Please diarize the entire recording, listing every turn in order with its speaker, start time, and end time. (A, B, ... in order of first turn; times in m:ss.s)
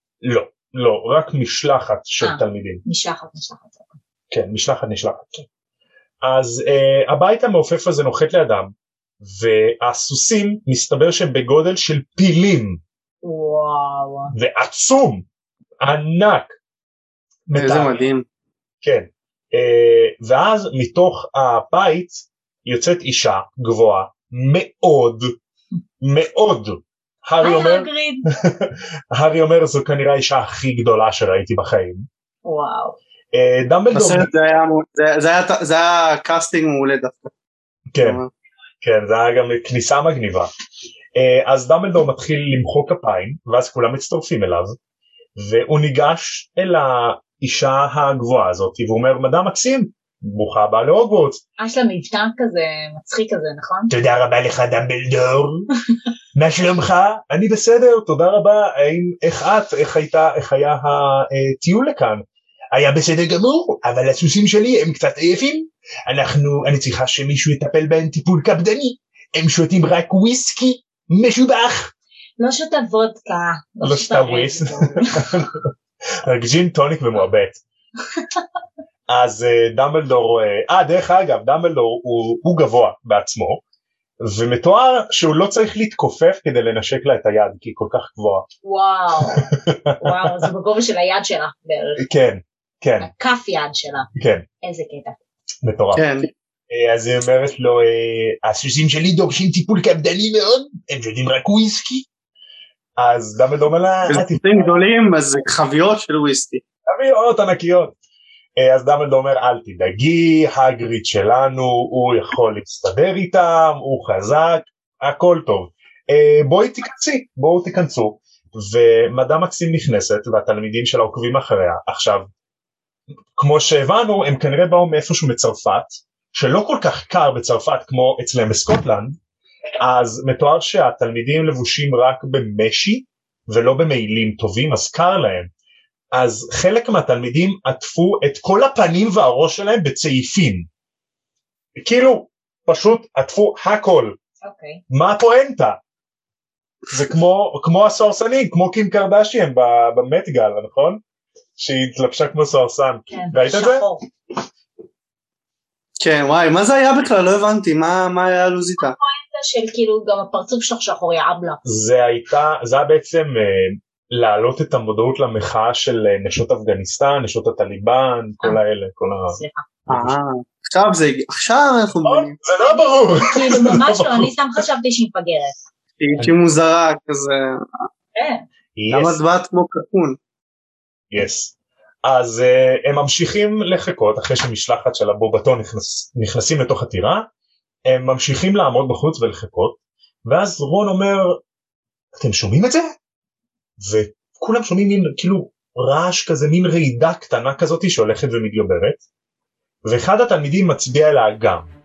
0:00.2-0:02.8 A
0:02.2-0:04.0 B
0:04.3-0:05.5 A
0:06.2-0:12.8 A
0:13.2-0:14.3 B
0:14.3-0:15.2 A
0:15.8-0:16.6 A
0:17.5-0:18.0 A
0:17.5-0:18.2 C
0:18.8-0:25.3 A
0:26.0-0:32.1 A
0:27.4-0:28.2 B
0:32.4-0:33.0 B
0:33.3-0:34.3 A
0:33.9-0:37.3 C
0:37.9-0:38.2 A
0:38.0-0:38.3 C
0:38.8-0:40.5 A
0:41.1-0:44.8 A
0:45.3-0:51.4 A
0:51.6-0:53.9 B
0:53.9-0:55.7 A
0:56.3-1:11.9 A
1:12.4-1:15.3 B
1:13.8-1:15.7 A
1:16.2-1:17.6 A
1:19.1-1:23.6 A
1:24.2-1:28.5 A
1:28.6-1:29.5 B
1:29.3-1:30.3 A
1:30.0-1:32.0 B
1:32.0-1:33.1 A
1:33.0-1:34.1 B
1:34.1-1:34.4 A
1:34.6-1:35.2 B
1:35.6-1:36.0 A
1:35.9-1:36.3 C
1:36.7-1:42.1 A
1:43.0-1:44.7 A
1:44.1-1:46.6 C
1:46.9-1:48.0 A
1:48.6-2:02.3 A
2:03.3-2:09.2 A
2:09.8-2:15.5 A
2:16.1-2:20.7 A
2:21.8-2:24.2 A
2:24.4-2:24.8 B
2:24.9-2:25.8 A
2:26.9-2:31.0 A
2:31.6-2:33.8 A
2:33.1-2:34.0 B
2:36.0-2:39.0 C
2:38.8-2:41.6 B
2:41.6-2:50.2 A
2:49.3-2:49.6 B
2:49.9-2:52.3 C
2:52.0-2:54.3 A
2:52.6-2:55.6 B
2:56.0-2:57.8 C
2:58.1-2:58.4 B
2:58.8-2:59.2 A
2:58.9-3:00.2 C
3:01.1-3:07.3 A
3:07.8-3:11.4 A
3:12.1-3:12.9 A
3:13.8-3:19.0 A
3:19.8-3:21.7 A